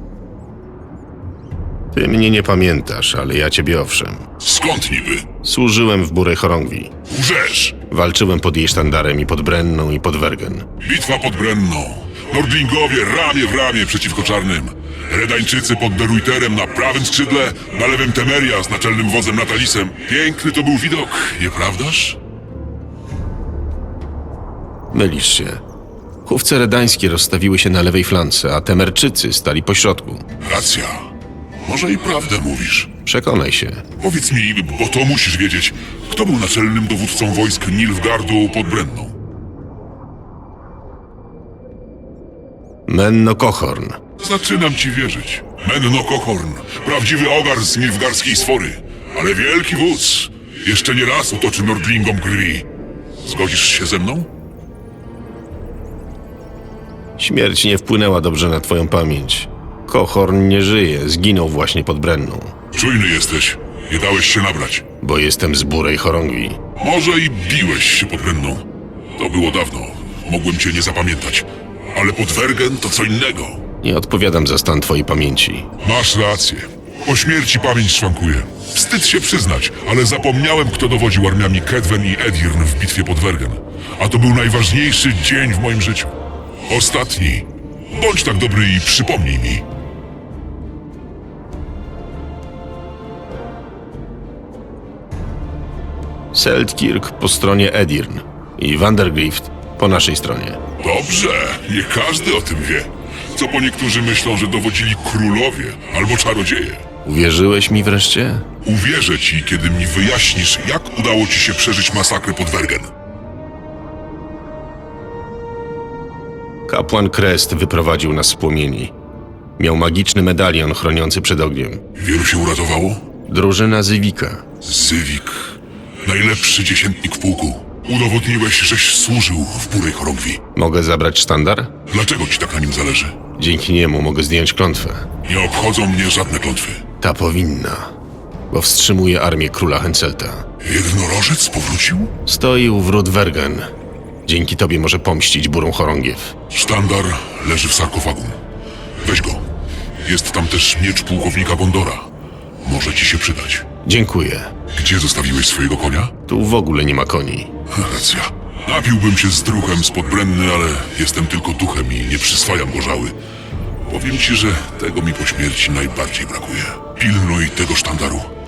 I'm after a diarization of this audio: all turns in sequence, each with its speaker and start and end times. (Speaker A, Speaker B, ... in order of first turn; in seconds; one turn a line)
Speaker A: 1.9-4.3
Speaker B: 4.4-5.3
Speaker A: 5.4-6.9
Speaker B: 7.1-7.8
Speaker A: 7.9-10.7
Speaker B: 10.8-22.2
Speaker A: 24.9-25.6
Speaker A: 26.3-30.3
Speaker B: 30.4-31.1
Speaker B: 31.6-32.9
Speaker A: 33.0-33.9
Speaker B: 34.0-39.2
Speaker A: 42.9-44.0
Speaker B: 44.2-52.7
Speaker B: 53.2-54.3
Speaker A: 57.2-62.5
Speaker B: 62.7-64.8
Speaker A: 65.0-66.6
Speaker B: 66.8-73.6
Speaker A: 73.8-75.7
Speaker B: 75.8-86.2
Speaker B: 86.7-89.7
Speaker A: 96.3-100.6
Speaker B: 100.8-106.8
Speaker A: 107.0-108.5
Speaker B: 108.6-112.9
Speaker A: 116.7-118.9
Speaker A: 119.6-121.8
Speaker B: 122.0-123.0
Speaker A: 123.3-124.4
Speaker B: 124.6-130.4
Speaker A: 130.6-131.7
Speaker B: 131.9-133.2
Speaker A: 133.4-135.1
Speaker B: 135.2-136.8
Speaker A: 137.0-137.9
Speaker A: 138.5-140.4
Speaker B: 140.6-142.1
Speaker A: 142.3-143.7
Speaker A: 144.3-146.3
Speaker B: 146.5-148.4
Speaker B: 149.0-149.4
Speaker B: 150.1-152.1
Speaker B: 152.6-153.7
Speaker A: 153.8-154.5
Speaker B: 154.7-156.1
Speaker A: 156.3-157.5
Speaker B: 157.7-163.2
Speaker B: 163.9-168.3